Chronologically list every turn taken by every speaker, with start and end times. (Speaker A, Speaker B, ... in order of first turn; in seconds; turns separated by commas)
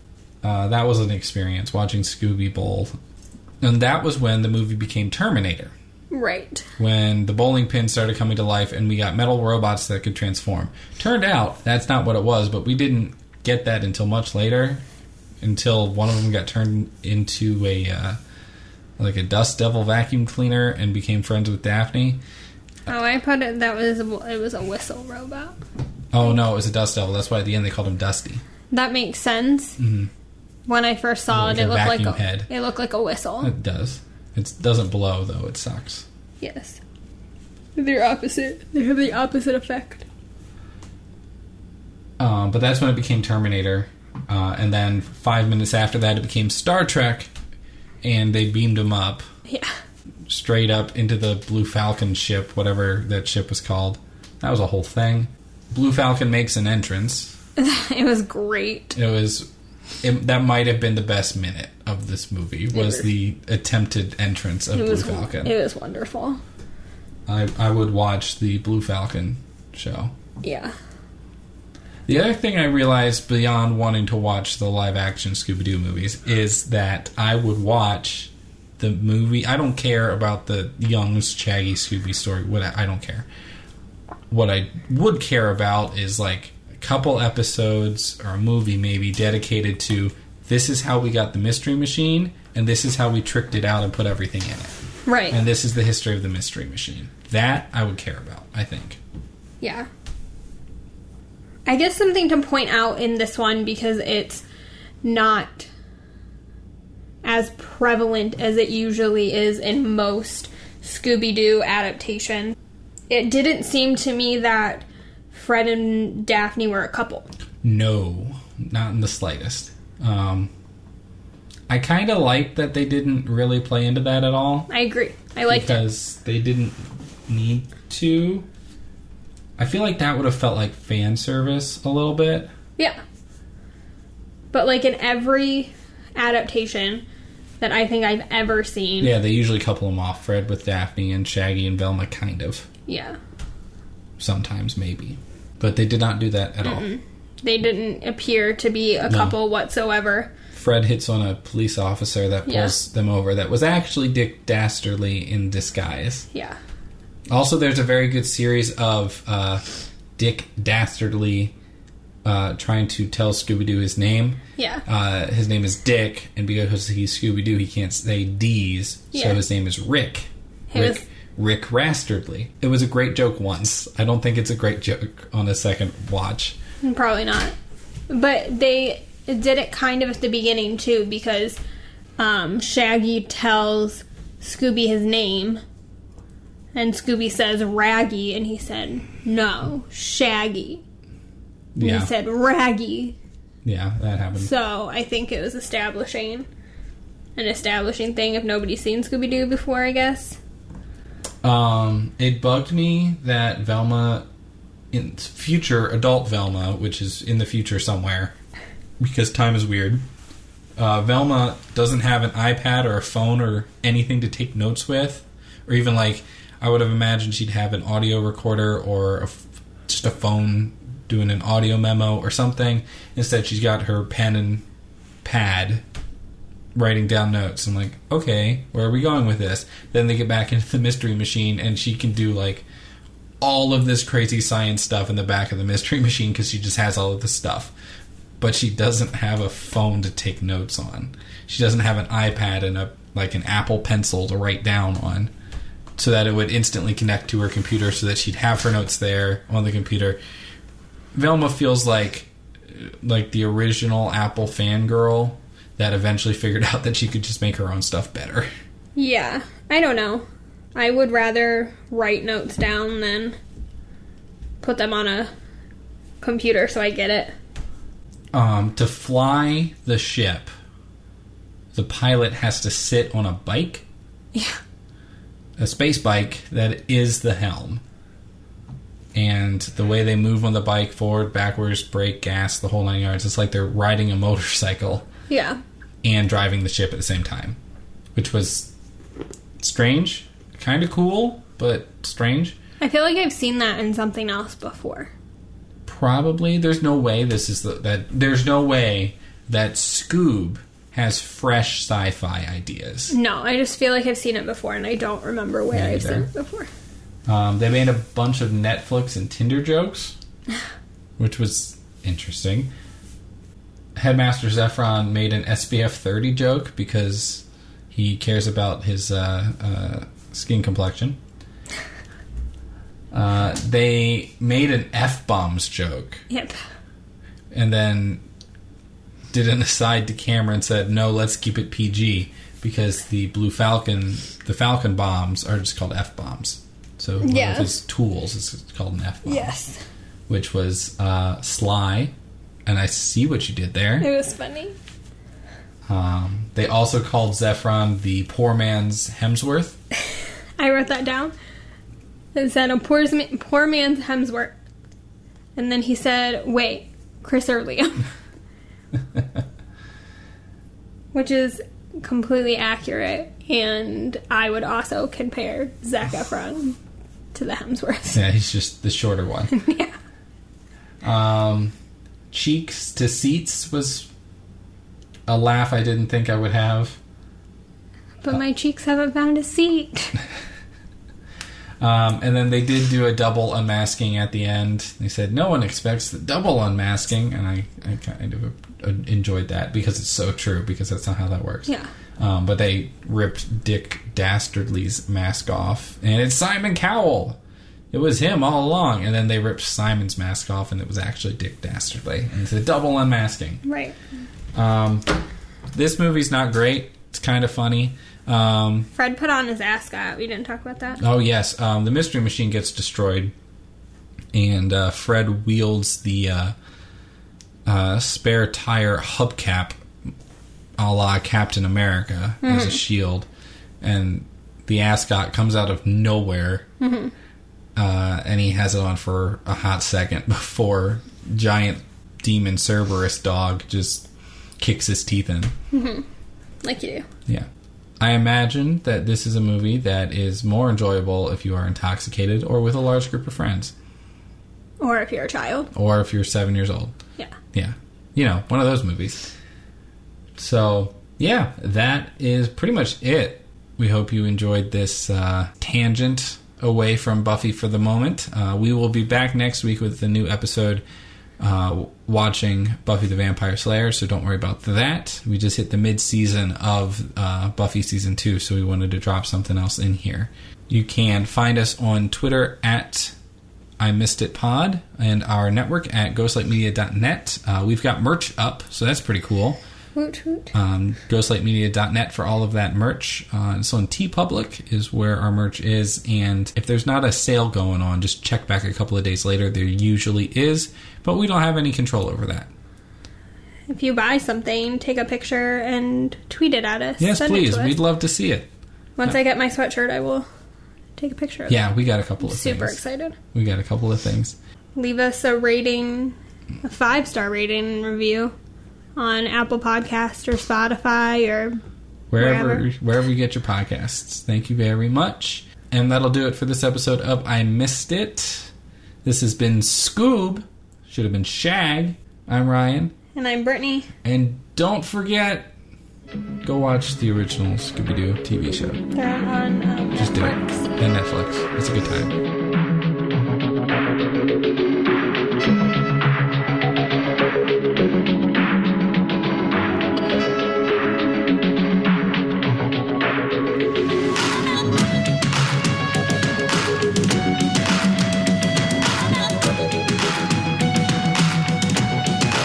Speaker A: 0.4-2.9, Speaker A: 3.6-5.7, Speaker B: 6.1-6.7, Speaker A: 6.8-14.8, Speaker A: 15.4-18.2, Speaker A: 19.0-22.2, Speaker B: 22.9-25.6, Speaker A: 26.1-28.4, Speaker B: 28.7-29.8, Speaker A: 29.8-30.1, Speaker B: 30.7-33.5, Speaker A: 31.3-32.5, Speaker A: 33.4-36.0, Speaker B: 36.4-36.8, Speaker B: 37.8-40.0, Speaker A: 42.2-47.3, Speaker A: 48.0-49.2, Speaker B: 49.5-49.7, Speaker A: 50.3-57.4, Speaker B: 57.6-59.0, Speaker A: 58.9-59.5, Speaker A: 60.0-65.5, Speaker B: 62.7-63.1, Speaker B: 64.7-66.4, Speaker A: 67.3-70.1, Speaker B: 70.4-70.7, Speaker A: 72.0-83.3, Speaker A: 84.3-94.7, Speaker B: 95.0-95.4, Speaker A: 95.3-99.0, Speaker B: 99.6-99.9, Speaker B: 101.7-104.4, Speaker B: 105.0-105.7, Speaker B: 107.2-112.5, Speaker B: 113.1-117.3, Speaker A: 117.6-120.5, Speaker A: 121.7-124.7, Speaker B: 124.7-125.8, Speaker A: 125.5-128.4, Speaker A: 129.6-132.5, Speaker B: 134.5-137.0, Speaker B: 137.6-139.1, Speaker A: 139.0-142.7, Speaker B: 142.9-143.2, Speaker A: 144.2-146.9, Speaker B: 146.6-150.3, Speaker A: 149.1-149.3, Speaker A: 150.5-156.3, Speaker B: 152.4-152.7, Speaker B: 156.3-156.6, Speaker A: 157.3-159.6, Speaker A: 160.2-161.5, Speaker A: 162.2-176.6, Speaker B: 164.6-164.8, Speaker B: 169.1-169.4, Speaker B: 170.7-171.0, Speaker B: 176.8-177.5, Speaker B: 178.1-181.6, Speaker B: 182.2-185.6, Speaker B: 186.7-190.8, Speaker A: 191.7-192.1, Speaker B: 191.8-193.2, Speaker A: 193.6-194.5, Speaker B: 194.4-196.5, Speaker B: 197.4-200.4, Speaker A: 201.4-204.3, Speaker A: 204.9-208.3, Speaker A: 209.0-210.0, Speaker A: 210.8-224.6, Speaker A: 225.2-225.8, Speaker A: 226.7-232.7, Speaker A: 233.4-237.7, Speaker A: 238.4-245.3, Speaker A: 246.0-250.2, Speaker A: 251.1-258.5, Speaker B: 258.9-263.4, Speaker B: 264.6-265.3, Speaker B: 266.2-267.3, Speaker A: 268.3-270.5, Speaker A: 271.7-273.8, Speaker B: 274.3-274.6, Speaker A: 275.6-277.8, Speaker A: 279.1-285.1, Speaker B: 285.3-285.6, Speaker A: 286.0-287.6, Speaker A: 288.1-288.7, Speaker A: 289.6-292.6, Speaker B: 292.8-295.1, Speaker A: 295.9-303.1, Speaker B: 303.1-306.7, Speaker A: 305.7-306.3, Speaker A: 307.3-310.1, Speaker A: 311.2-312.7, Speaker A: 313.9-321.2, Speaker A: 323.1-326.2, Speaker B: 326.3-326.6, Speaker A: 327.5-328.2, Speaker A: 329.3-339.5, Speaker B: 337.2-337.7, Speaker B: 339.2-339.8, Speaker A: 340.3-342.1, Speaker A: 342.6-344.1, Speaker B: 344.0-344.7, Speaker A: 345.9-349.8, Speaker B: 350.6-351.3, Speaker B: 352.3-354.5, Speaker B: 355.6-358.0, Speaker B: 361.1-366.8, Speaker B: 367.3-368.2, Speaker A: 368.1-369.5, Speaker B: 369.5-369.9, Speaker A: 371.0-371.7, Speaker A: 372.3-374.1, Speaker A: 375.2-377.0, Speaker B: 378.2-380.2, Speaker A: 381.8-397.4, Speaker A: 397.9-403.6, Speaker B: 403.6-403.9, Speaker A: 404.5-405.1, Speaker A: 405.7-408.9, Speaker B: 408.9-411.0, Speaker A: 411.0-413.3, Speaker A: 414.3-416.5, Speaker A: 417.6-419.8, Speaker A: 420.8-423.3, Speaker B: 422.4-422.8, Speaker A: 423.8-426.6, Speaker B: 426.8-427.1, Speaker A: 427.8-434.1, Speaker A: 434.6-435.5, Speaker B: 435.7-436.0, Speaker B: 436.6-437.1, Speaker A: 438.0-443.7, Speaker B: 444.8-445.7, Speaker A: 445.7-446.9, Speaker A: 447.5-449.3, Speaker A: 450.4-460.8, Speaker A: 461.4-473.1, Speaker A: 473.8-479.6, Speaker B: 479.9-480.5, Speaker A: 480.5-492.5, Speaker B: 493.7-497.8, Speaker A: 497.0-498.5, Speaker B: 499.0-500.3, Speaker B: 501.0-501.6, Speaker A: 501.5-502.8, Speaker B: 502.2-503.1, Speaker A: 503.3-504.4, Speaker B: 504.8-508.3, Speaker B: 508.9-511.6, Speaker A: 512.1-518.5, Speaker B: 512.2-512.6, Speaker A: 519.0-522.9, Speaker B: 523.1-523.9, Speaker A: 524.0-525.5, Speaker A: 526.4-528.8, Speaker B: 528.9-530.7, Speaker A: 530.0-532.2